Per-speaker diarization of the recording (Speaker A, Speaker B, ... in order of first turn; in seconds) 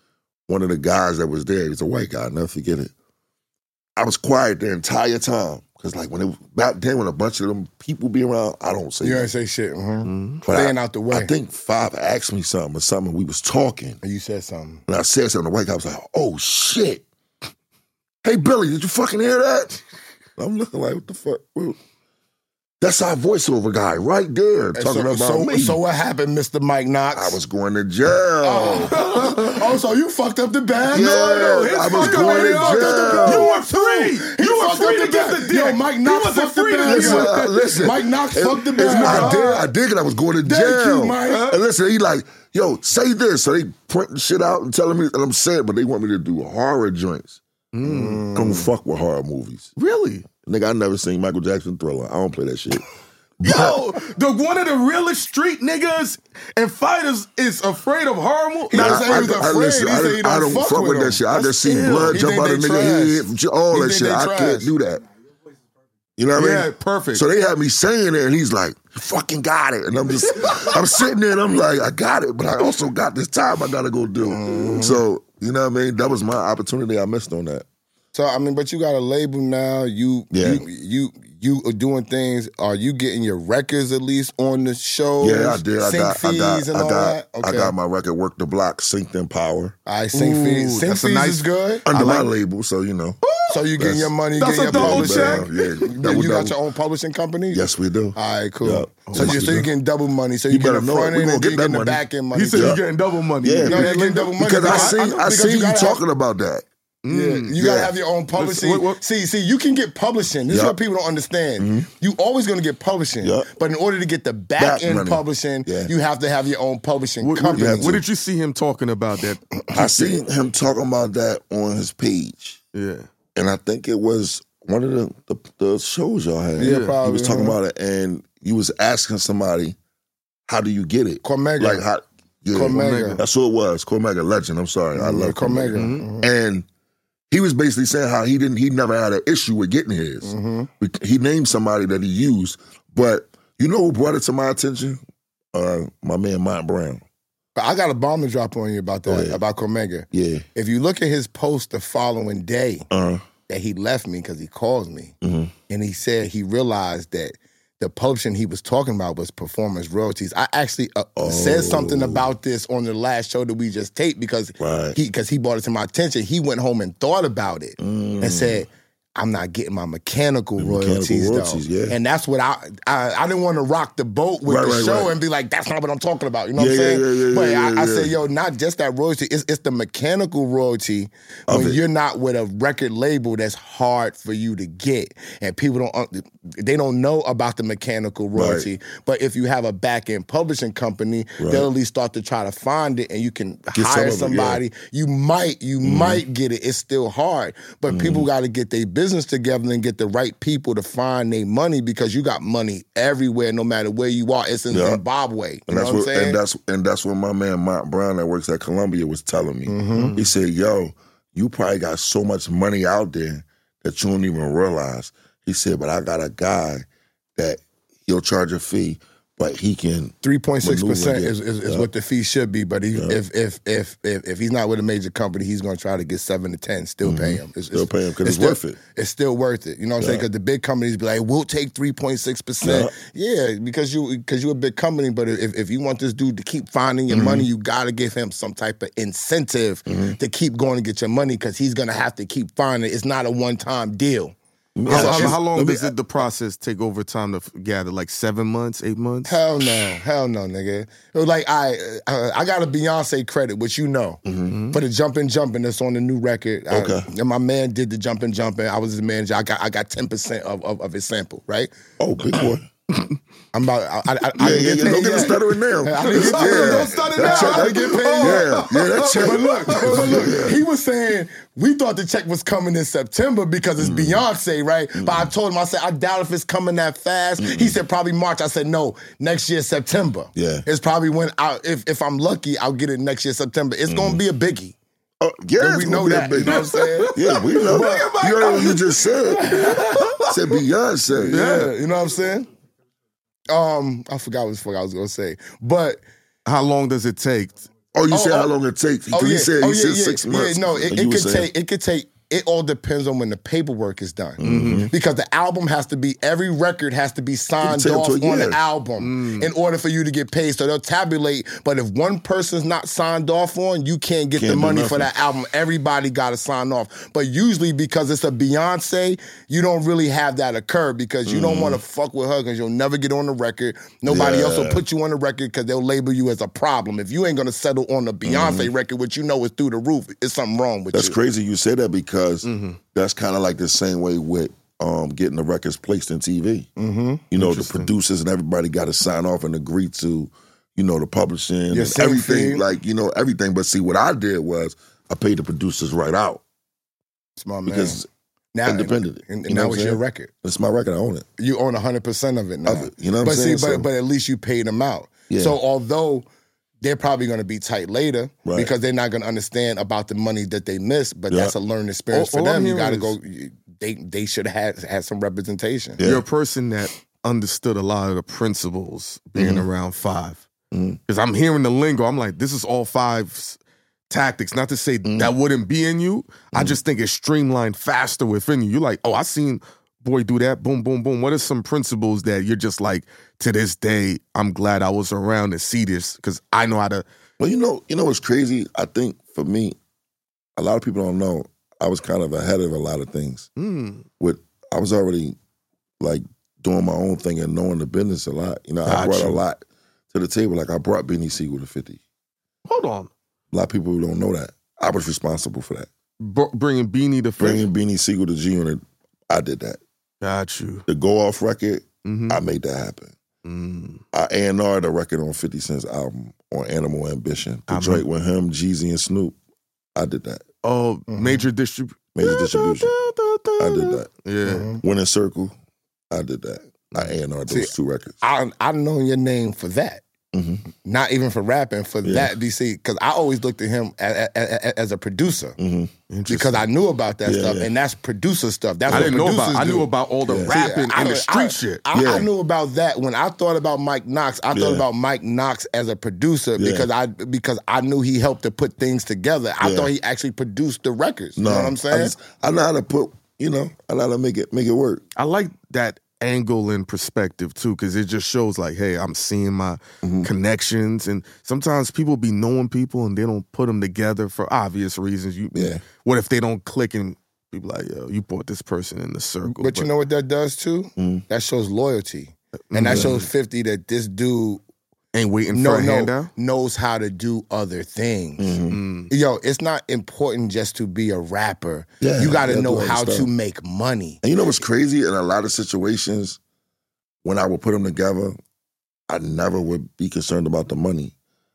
Speaker A: 0.5-2.9, 4.0-9.3, 10.4-14.0, 14.9-17.1, 18.2-19.8, 20.4-21.8, 22.8-25.8, 27.1-29.4, 30.9-33.5, 36.8-47.4, 48.4-49.7, 50.4-52.8, 53.4-53.8, 58.7-65.0, 66.2-77.7, 80.3-80.6, 85.2-89.8, 91.9-93.2, 93.8-94.1, 94.7-96.6, 97.5-99.7, 100.5-102.8, 103.4-106.7, 107.6-107.9, 110.5-110.8, 111.6-111.9, 113.2-113.5, 114.6-115.9, 117.5-118.0, 119.7-122.6, 123.4-129.8, 130.5-136.7, 137.3-145.0, 145.5-147.0, 149.1-149.4, 150.1-150.5, 152.9-153.2, 155.2-155.5, 161.2-162.3, 164.6-165.0, 167.8-168.6, 170.6-172.0, 174.5-175.2, 176.6-178.2, 181.5-181.8, 188.3-188.7, 191.4-191.7, 193.7-194.6, 195.8-196.2, 197.9-198.3, 204.7-205.0, 205.7-216.8, 217.4-221.9, 222.9-223.2, 227.0-228.8, 230.0-230.2, 232.6-232.9, 237.1-237.5, 239.9-240.2, 244.8-245.9, 254.3-254.6, 256.7-257.1, 262.0-262.7, 264.4-270.6, 273.8-274.2, 274.9-275.3, 277.4-277.8, 280.4-280.7, 283.9-284.2, 285.2-291.4, 297.9-301.5, 304.4-304.9, 307.6-308.6, 314.4-315.1, 321.3-321.8, 324.1-324.8, 328.2-328.7, 330.9-336.7, 337.3-346.4, 347.7-348.1, 348.6-351.3, 352.6-353.9, 355.3-355.6, 358.4-358.7, 361.3-361.5, 366.0-366.2, 369.4-369.7, 370.7-371.0, 375.1-375.3, 376.5-376.8, 387.4-389.8, 390.6-393.5, 394.2-395.4, 396.0-402.0, 403.5-405.9, 407.4-409.8, 410.9-413.1, 414.1-419.4, 420.0-420.4, 422.1-422.9, 423.6-424.1, 424.8-425.6, 426.1-428.2, 430.3-430.6, 432.0-432.3, 435.6-435.9, 437.2-437.7, 438.9-439.2, 440.3-440.6, 441.9-442.3, 444.5-444.9, 446.6-446.9, 449.6-449.9, 451.4-455.0, 460.0-460.3, 465.5-465.8, 471.0-471.2, 472.9-473.1, 478.4-478.8, 482.0-483.3, 484.2-486.4, 487.2-488.4, 489.1-491.1
Speaker B: 9.0-11.3, 14.0-14.8, 24.8-27.4, 28.4-39.7, 40.4-41.5, 47.8-48.7, 58.7-64.7, 74.2-75.0, 78.1-87.7, 89.9-91.8, 93.5-102.8, 103.7-106.0, 107.1-118.0, 119.7-120.1, 126.6-127.6, 131.2-131.8, 132.5-133.2, 134.9-136.3, 140.2-140.7, 147.6-152.9, 153.5-155.2, 155.7-206.4, 209.7-210.1, 220.2-245.4, 249.3-254.2, 254.7-261.7, 263.5-284.8, 285.6-288.1, 289.3-290.1, 291.2-292.5, 293.5-296.0, 298.1-298.5, 299.1-331.2, 336.8-337.2, 341.7-342.6, 347.4-348.0, 348.5-350.3, 351.4-356.3, 356.8-366.0, 421.1-421.4, 424.4-424.8, 427.5-430.0, 430.8-435.6, 436.3-439.9, 440.4-452.2, 469.5-474.6, 475.5-478.6, 479.1-484.2
Speaker C: 10.1-10.4, 28.9-29.6, 30.9-37.8, 38.8-39.5, 41.3-41.6, 47.7-48.3, 49.8-50.3, 53.4-59.3, 61.3-62.2, 66.3-67.2, 70.4-70.7, 90.1-92.3, 93.2-93.7, 94.4-95.8, 99.1-99.6, 102.3-105.0, 107.0-107.6, 108.3-109.0, 117.2-119.5, 122.7-123.1, 126.6-127.0, 132.7-133.2, 135.8-136.1, 209.9-210.3, 244.9-249.3, 254.5-254.8, 264.5-265.4, 266.0-270.4, 286.5-290.3, 291.3-291.7, 296.5-297.7, 304.4-304.9, 309.0-309.5, 332.4-332.8, 337.4-337.9, 362.1-363.2, 366.0-370.5, 371.1-373.6, 374.1-387.1, 393.6-394.1, 398.9-399.4, 402.7-403.1, 406.2-407.6, 410.2-410.9, 412.1-412.4, 413.4-414.0, 417.7-418.1, 420.6-424.7, 436.1-436.6, 438.9-441.8, 455.2-469.9, 472.7-473.3, 475.1-476.3, 478.7-479.1